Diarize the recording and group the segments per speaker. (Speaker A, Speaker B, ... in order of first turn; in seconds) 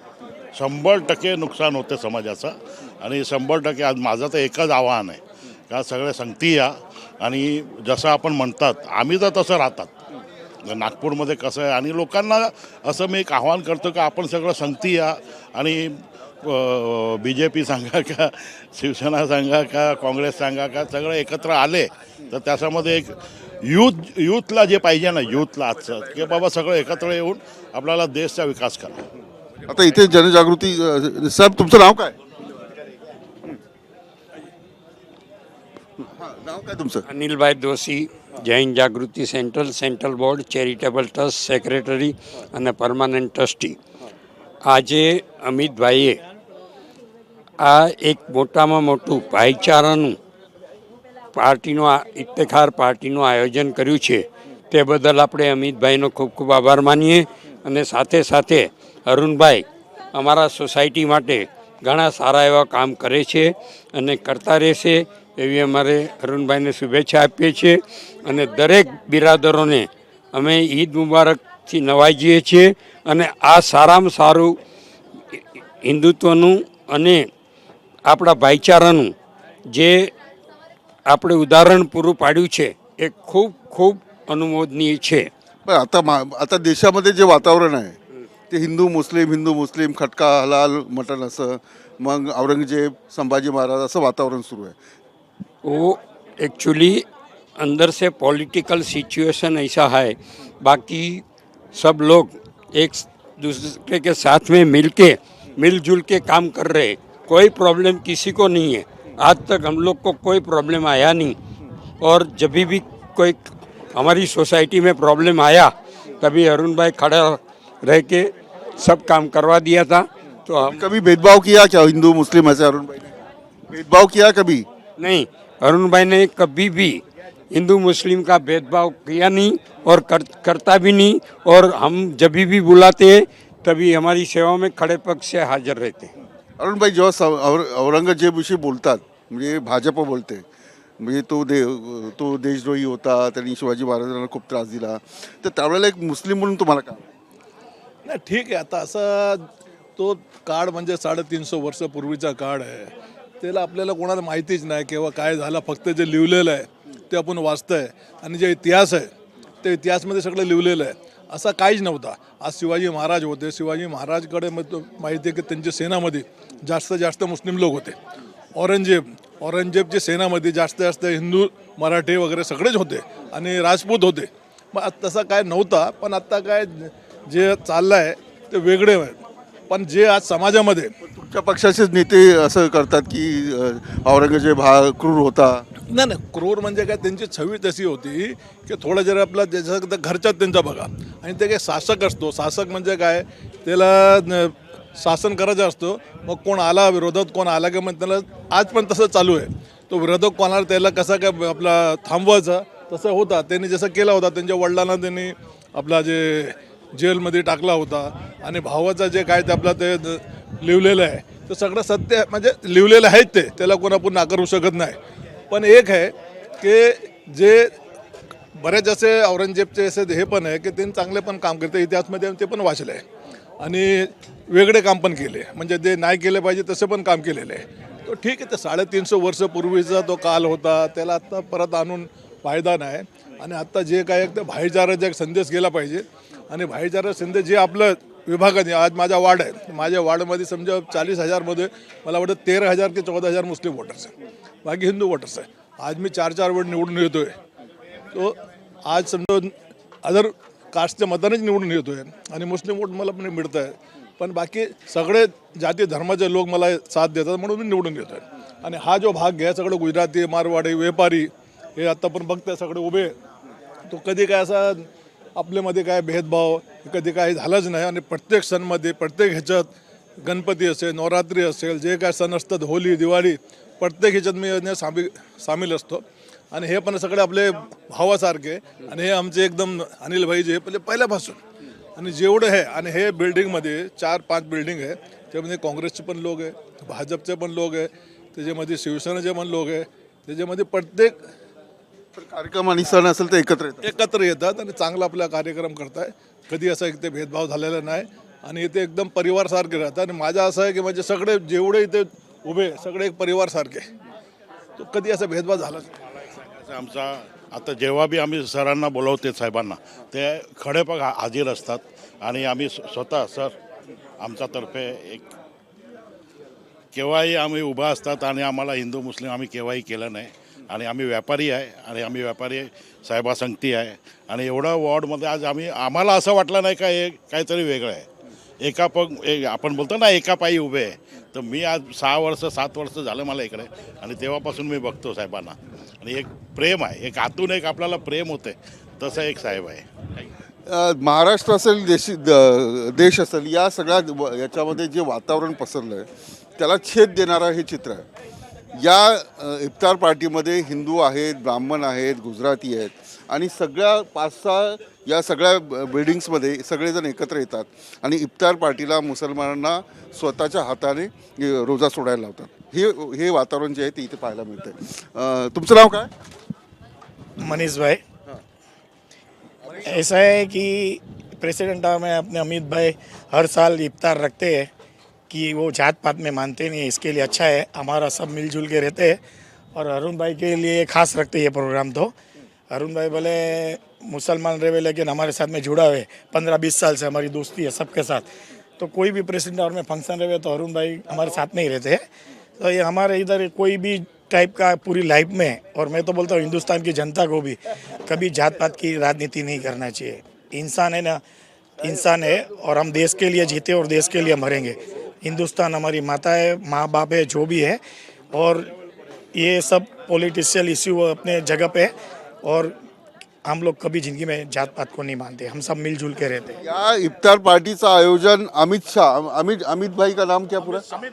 Speaker A: 0.6-9.9, 10.7-15.9, 16.4-29.1, 306.2-313.6, 314.2-315.3, 316.9-328.1, 328.6-339.9
Speaker B: 29.7-32.2, 36.0-37.0, 85.7-88.0, 88.5-94.8, 120.6-123.2, 123.7-124.7, 136.6-140.4, 141.0-147.1, 181.0-185.7, 292.1-293.9, 340.7-346.1, 346.6-348.1, 348.8-366.1, 416.6-420.9
Speaker C: 37.1-43.8, 44.6-46.2, 47.6-50.2, 51.4-74.5, 75.8-77.3, 78.1-79.1, 79.7-80.1, 81.1-85.3, 95.6-97.0, 97.6-101.2, 101.7-111.4, 112.0-120.8, 125.0-127.0, 127.5-136.1
Speaker D: 148.1-149.4, 150.0-159.1, 159.6-168.0, 168.6-180.9, 185.9-215.0, 215.5-217.7, 218.6-223.0, 223.6-244.1, 244.7-247.3, 248.1-263.1, 263.9-269.7, 270.2-281.4, 282.0-291.2, 293.8-303.9, 304.8-305.9
Speaker E: 367.4-368.0, 369.8-374.7, 375.3-379.2, 379.8-382.1, 382.7-388.3, 388.8-392.0, 392.6-401.2, 401.8-407.8, 408.3-408.7, 409.4-411.9, 412.4-412.7, 413.4-416.6